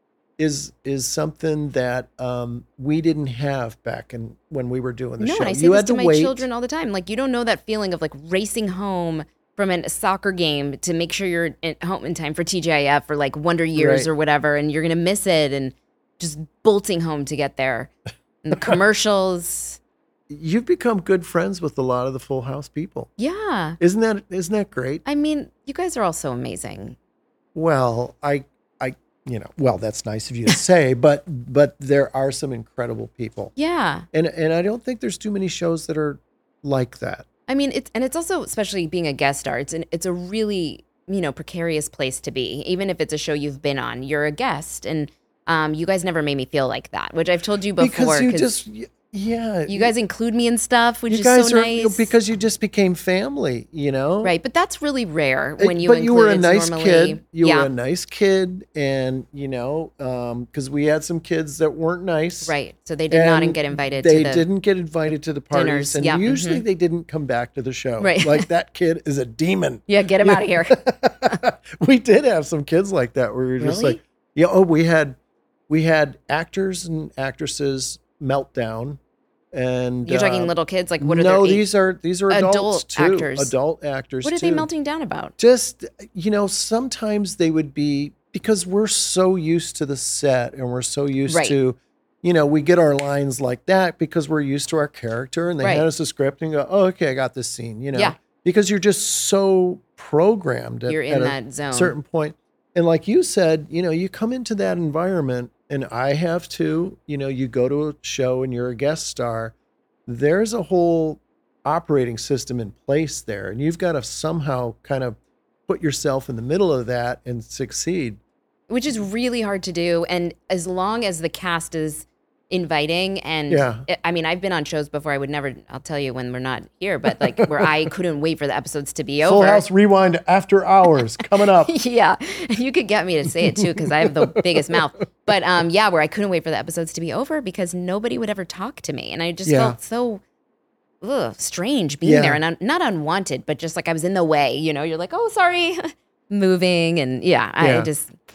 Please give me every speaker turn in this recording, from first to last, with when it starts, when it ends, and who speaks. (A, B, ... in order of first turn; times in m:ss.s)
0:00.4-0:06.5 A
0:05.2-0:17.9 B
0:13.8-0:14.1 A
0:18.4-0:19.8 B
0:20.3-0:23.1 A
0:23.2-0:23.8 B
0:23.8-0:25.0 A
0:25.0-0:27.0 B
0:27.6-0:33.5 A
0:33.6-0:34.1 B
0:34.1-0:37.3 A
0:37.5-0:48.5 B
0:47.8-0:49.9 A
0:49.7-0:52.1 B
0:51.1-0:54.4 A
0:54.2-0:57.7 B
0:55.6-1:02.6 A
1:02.4-1:04.5 B
1:03.1-1:15.2 A
1:05.5-1:06.6 B
1:08.0-1:08.5 B
1:09.9-1:10.8 B
1:13.6-1:14.0 B
1:15.7-1:19.0 A
1:19.5-1:24.7 A
1:20.0-1:21.7 B
1:22.3-1:23.5 B
1:24.2-1:25.3 B
1:25.4-1:49.5 A
1:31.3-1:31.6 B
1:35.6-1:35.9 B
1:40.9-1:42.0 B
1:50.1-1:58.2 A
1:58.7-2:09.6 B
2:03.5-2:03.9 A
2:07.1-2:07.7 A
2:09.2-2:11.7 A
2:11.6-2:20.2 B
2:13.4-2:14.8 A
2:19.5-2:19.8 A
2:21.0-2:28.2 B
2:22.0-2:22.4 A
2:27.6-2:27.9 A